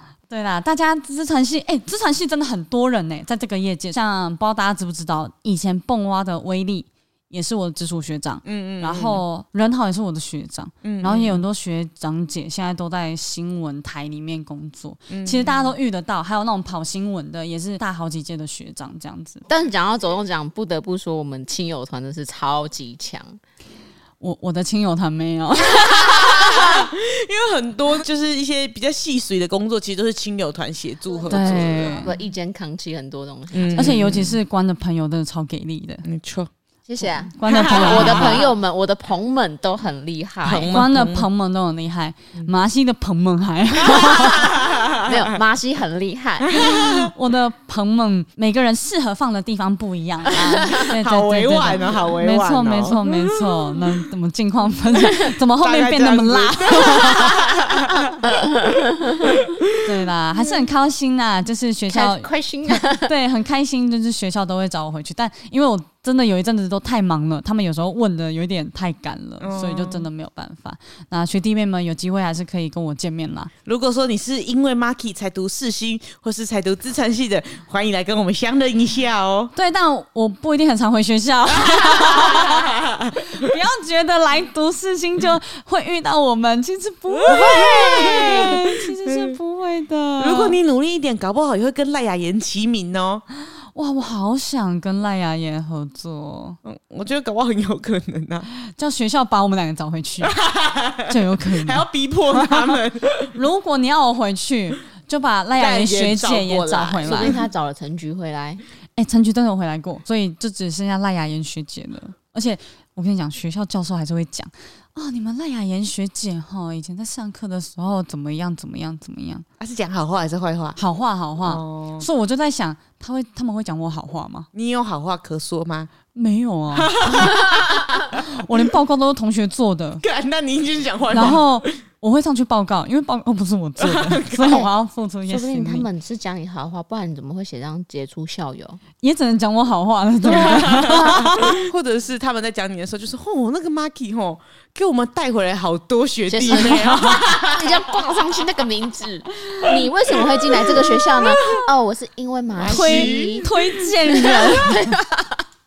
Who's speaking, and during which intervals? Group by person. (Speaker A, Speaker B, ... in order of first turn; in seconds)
Speaker A: 0.3-19.4, 24.2-26.7, 31.3-32.1, 33.8-36.0, 37.3-38.4, 40.7-44.5, 46.7-57.4, 59.8-73.5, 79.5-90.6, 93.7-96.6, 98.7-100.4, 101.1-102.8, 103.3-107.4, 109.0-119.4, 120.8-124.5, 126.1-127.5, 128.0-130.0, 131.1-135.8, 139.0-141.2, 146.5-147.2, 152.7-154.9
Speaker B: 8.4-9.2, 10.8-11.4, 15.1-15.7, 25.7-32.0, 33.5-34.4, 36.0-36.5, 37.4-38.5, 40.4-41.3, 44.0-45.4, 46.5-47.1, 50.9-53.6, 55.0-58.5, 59.2-59.6, 69.4-70.1, 73.6-79.5, 81.8-82.5, 87.2-89.4, 90.2-93.2, 96.6-98.5, 100.2-103.3, 105.5-107.4, 119.6-120.8, 121.4-122.1, 124.5-125.9, 126.7-128.1, 130.0-131.7, 133.8-134.7, 135.6-135.9, 140.2-148.1, 149.6-149.9, 150.5-151.7, 152.6-153.5
Speaker C: 19.5-23.4, 31.1-34.0, 36.9-40.8, 45.0-46.6, 61.9-63.1, 107.0-108.6, 135.3-138.8, 141.1-141.5, 146.3-153.5, 154.2-155.4